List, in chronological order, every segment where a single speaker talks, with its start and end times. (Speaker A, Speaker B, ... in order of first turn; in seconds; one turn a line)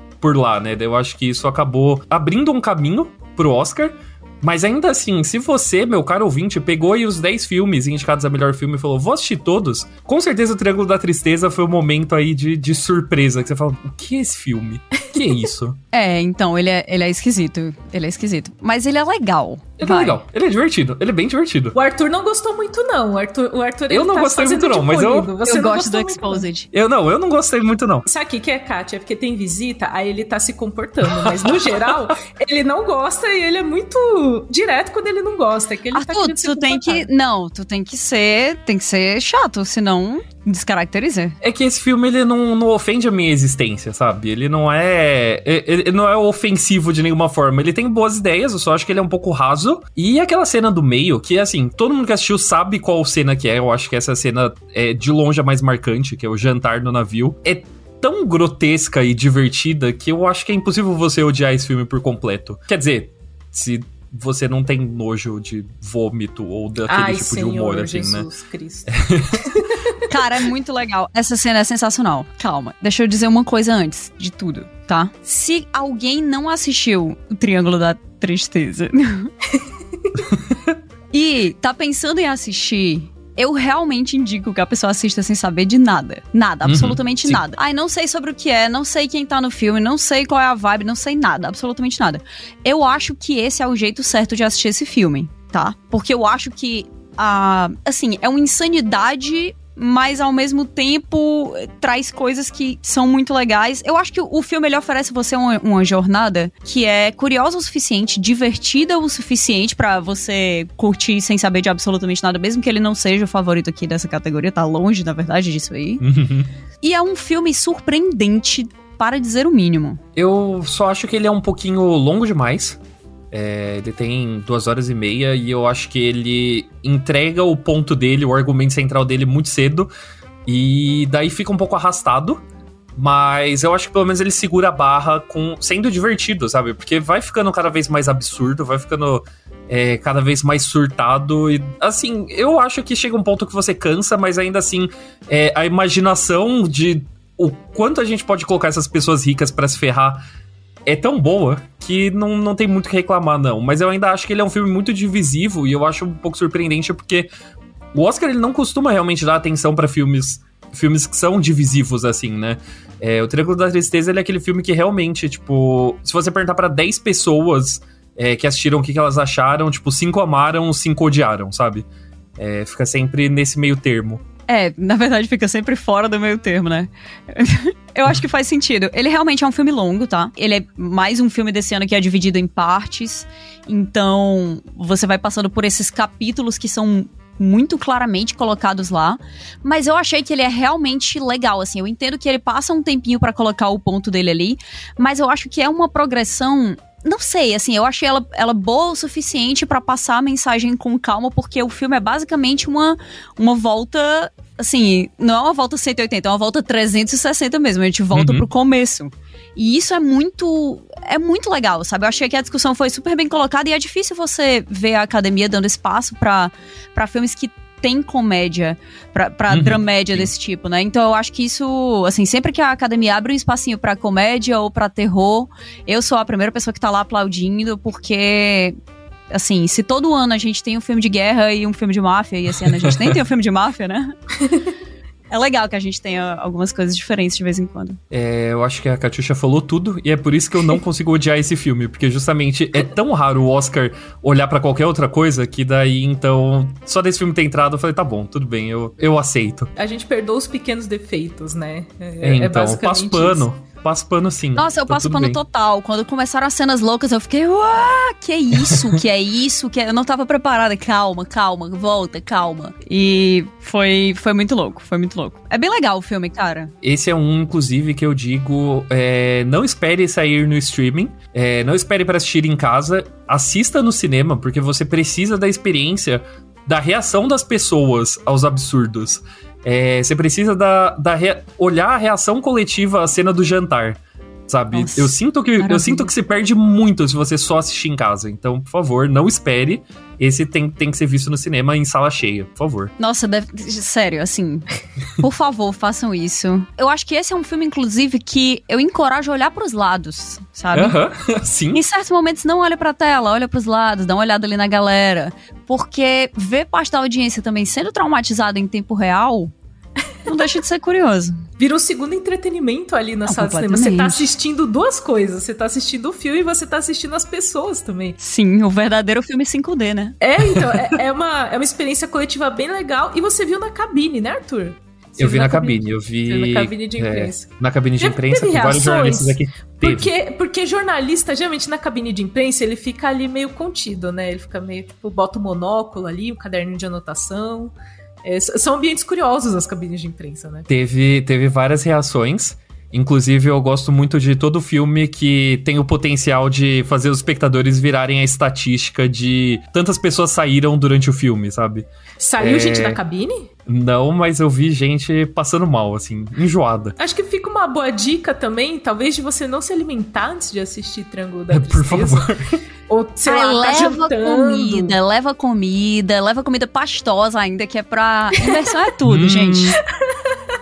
Speaker A: 0.2-15.8
Speaker B: 15.9-20.2
Speaker A: 19.8-21.8
Speaker C: 21.8-26.5
Speaker A: 23.9-25.3
Speaker B: 25.4-26.7
Speaker A: 26.7-28.1
Speaker C: 28.1-37.1
Speaker A: 31.1-32.1
Speaker B: 35.9-41.4
Speaker A: 41.4-68.3
Speaker C: 66.9-69.8
Speaker A: 68.9-69.5
Speaker B: 70.1-79.3
Speaker B: 81.1-116.0
Speaker A: 86.7-87.4
Speaker A: 116.0-116.5
Speaker B: 116.8-120.0
Speaker A: 120.2-122.8
Speaker A: 123.3-129.9
Speaker A: 130.5-132.4
Speaker A: 133.0-150.2
Speaker A: 150.9-157.3
Speaker A: 157.9-171.8
Speaker A: 172.4-174.2
Speaker B: 174.5-228.8
Speaker A: 208.1-208.5
Speaker A: 219.5-220.3
Speaker B: 229.3-234.1
Speaker A: 232.7-233.2
Speaker B: 235.3-238.0
Speaker A: 238.1-249.7
Speaker C: 249.8-253.4
Speaker A: 252.2-255.4
Speaker B: 254.6-266.7
Speaker A: 258.6-258.9
Speaker A: 266.8-292.9
Speaker B: 284.7-286.1
Speaker B: 293.0-294.7
Speaker B: 295.2-301.0
Speaker A: 300.7-301.8
Speaker B: 301.7-309.5
Speaker B: 310.3-311.4
Speaker C: 311.6-318.2
Speaker B: 313.3-314.3
Speaker B: 318.2-320.2
Speaker C: 320.2-327.5
Speaker A: 325.2-330.1
Speaker C: 328.0-337.7
Speaker C: 338.2-340.7
Speaker A: 340.7-351.9
Speaker C: 352.2-353.5
Speaker A: 352.4-353.0
Speaker A: 353.7-357.0
Speaker C: 357.0-362.2
Speaker A: 361.5-362.6
Speaker C: 362.9-365.0
Speaker B: 363.2-369.8
Speaker A: 369.0-369.8
Speaker C: 370.0-370.4